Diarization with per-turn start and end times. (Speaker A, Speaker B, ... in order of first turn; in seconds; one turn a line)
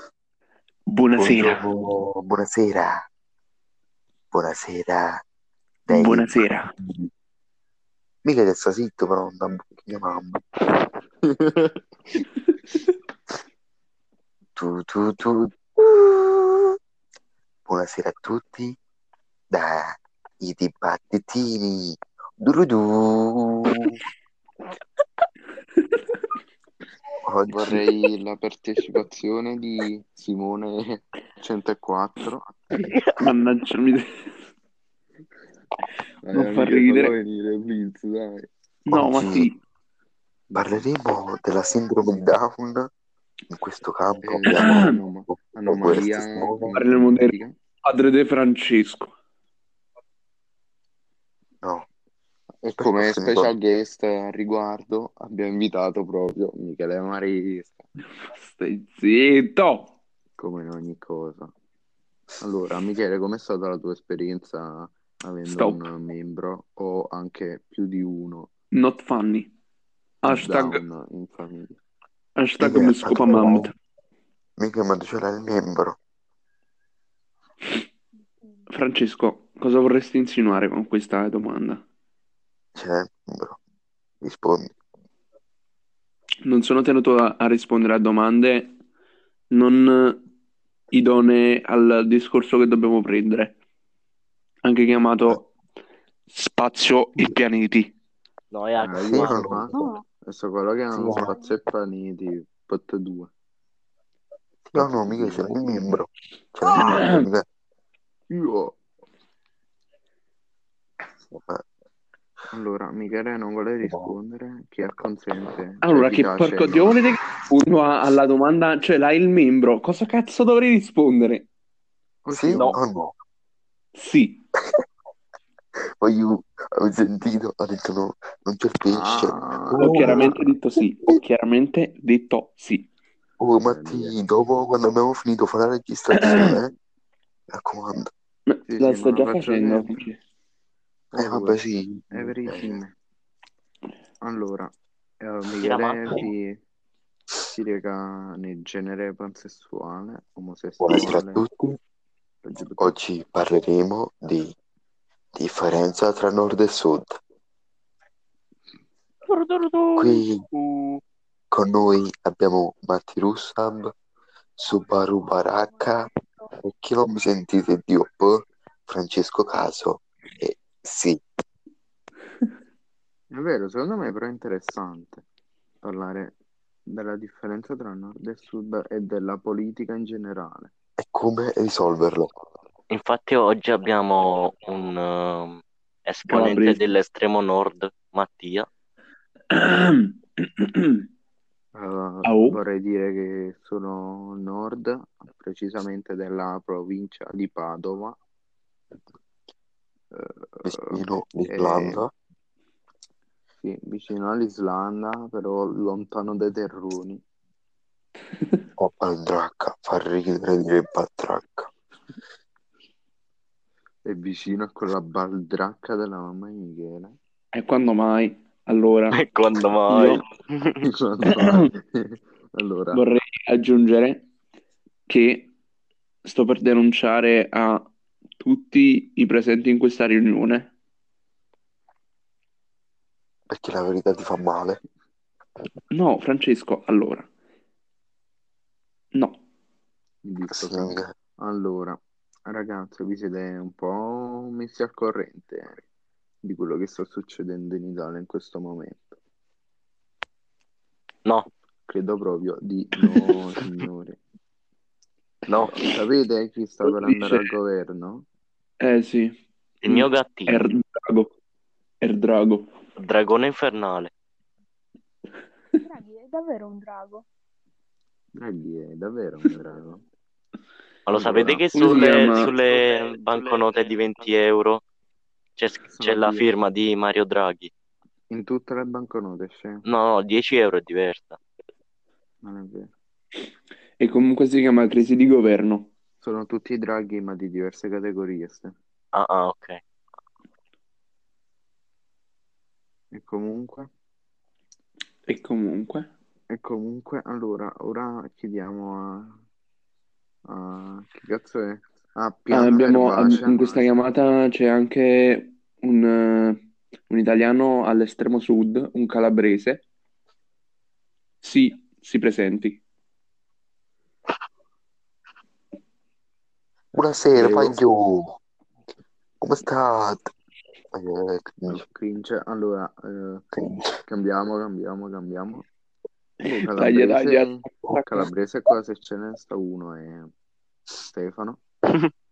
Speaker A: 0.9-1.6
Speaker B: 1.1-3.0
Speaker B: 4.3-5.2
Speaker B: 5.9-7.1
Speaker A: 5.9-6.7
Speaker B: 8.2-10.4
Speaker C: 11.3-11.8
Speaker B: 14.6-16.7
Speaker B: 17.7-18.8
Speaker B: 19.5-24.0
Speaker B: 27.2-27.8
Speaker C: 27.5-32.9
Speaker D: 32.8-33.2
Speaker A: 33.2-34.1
Speaker C: 36.2-38.5
Speaker A: 36.3-37.1
Speaker A: 38.9-39.5
Speaker B: 38.9-39.5
Speaker C: 40.5-40.8
Speaker B: 40.5-42.9
Speaker B: 43.5-44.9
Speaker C: 44.2-47.6
Speaker A: 44.5-45.0
Speaker B: 45.5-46.8
Speaker A: 46.7-49.1
Speaker C: 52.6-57.9
Speaker B: 52.8-53.5
Speaker A: 58.2-59.9
Speaker C: 60.4-61.5
Speaker C: 62.4-68.5
Speaker A: 65.5-65.8
Speaker A: 68.7-69.5
Speaker A: 70.2-70.8
Speaker C: 70.2-71.8
Speaker A: 72.4-73.7
Speaker B: 72.6-73.7
Speaker B: 74.6-76.0
Speaker A: 78.7-81.8
Speaker B: 82.8-83.6
Speaker B: 84.2-84.7
Speaker A: 86.4-88.8
Speaker A: 89.5-90.2
Speaker A: 90.9-93.6
Speaker A: 94.6-95.5
Speaker A: 96.3-97.9
Speaker D: 98.5-99.4
Speaker C: 98.8-103.3
Speaker B: 99.1-99.8
Speaker E: 99.7-100.0
Speaker B: 100.9-101.3
Speaker B: 104.7-107.5
Speaker C: 104.7-106.0
Speaker A: 106.9-107.3
Speaker C: 108.3-108.8
Speaker B: 111.3-111.6
Speaker C: 112.5-117.0
Speaker B: 113.8-114.1
Speaker A: 115.8-121.5
Speaker C: 122.2-122.8
Speaker B: 122.3-123.1
Speaker A: 124.0-124.4
Speaker B: 126.0-130.5
Speaker C: 128.9-130.3
Speaker A: 129.8-132.9
Speaker B: 133.4-136.7
Speaker C: 133.6-134.2
Speaker A: 136.1-136.5
Speaker B: 137.5-138.1
Speaker A: 138.5-140.2
Speaker C: 138.7-140.1
Speaker C: 141.1-141.6
Speaker B: 141.2-142.8
Speaker C: 142.1-142.9
Speaker C: 144.2-146.6
Speaker D: 145.6-146.2
Speaker C: 147.5-151.4
Speaker B: 150.8-151.8
Speaker C: 152.4-152.9
Speaker B: 152.8-154.5
Speaker B: 155.3-157.2
Speaker A: 159.3-160.0
Speaker B: 160.0-160.4
Speaker A: 160.5-161.0
Speaker B: 161.5-163.9
Speaker B: 164.6-166.0
Speaker E: 165.6-166.5
Speaker B: 166.6-171.2
Speaker C: 173.3-175.2
Speaker C: 175.8-176.3
Speaker C: 176.9-180.7
Speaker B: 181.0-182.3
Speaker D: 182.9-188.7
Speaker A: 186.3-186.9
Speaker A: 189.5-191.1
Speaker C: 191.8-198.2
Speaker A: 192.2-192.6
Speaker C: 200.1-200.9
Speaker B: 200.7-202.1
Speaker C: 201.5-202.0
Speaker C: 203.6-207.2
Speaker B: 208.8-211.7
Speaker C: 214.1-217.2
Speaker A: 217.5-219.2
Speaker D: 219.1-220.7
Speaker A: 219.9-220.2
Speaker C: 220.8-223.0
Speaker A: 221.3-221.7
Speaker A: 222.9-224.3
Speaker A: 225.1-225.5
Speaker A: 226.2-230.7
Speaker B: 233.5-234.8
Speaker A: 235.9-237.3
Speaker A: 239.1-239.4
Speaker C: 240.2-245.8
Speaker B: 240.5-241.1
Speaker C: 246.4-249.2
Speaker C: 251.9-254.2
Speaker D: 255.5-255.7
Speaker C: 255.7-258.2
Speaker A: 256.8-257.5
Speaker A: 258.8-261.3
Speaker D: 259.8-260.6
Speaker A: 262.0-262.7
Speaker D: 263.0-264.1
Speaker E: 265.9-267.2
Speaker C: 268.4-270.0
Speaker D: 271.1-274.8
Speaker C: 271.1-272.5
Speaker A: 271.7-272.5
Speaker C: 273.3-273.6
Speaker D: 275.6-277.7
Speaker C: 275.9-276.5
Speaker C: 278.3-279.8
Speaker D: 279.9-281.4
Speaker C: 282.4-282.9
Speaker A: 284.0-285.9
Speaker C: 286.2-288.7
Speaker D: 289.1-289.8
Speaker C: 293.1-293.9
Speaker A: 295.3-296.1
Speaker C: 296.5-299.4
Speaker C: 300.5-304.0
Speaker A: 302.5-309.8
Speaker A: 311.4-312.8
Speaker B: 316.9-318.4
Speaker A: 317.4-317.7
Speaker B: 319.4-320.3
Speaker B: 320.9-321.8
Speaker C: 321.7-323.4
Speaker B: 323.6-323.8
Speaker C: 324.1-325.6
Speaker A: 326.4-328.3
Speaker C: 326.5-330.3
Speaker C: 331.1-331.6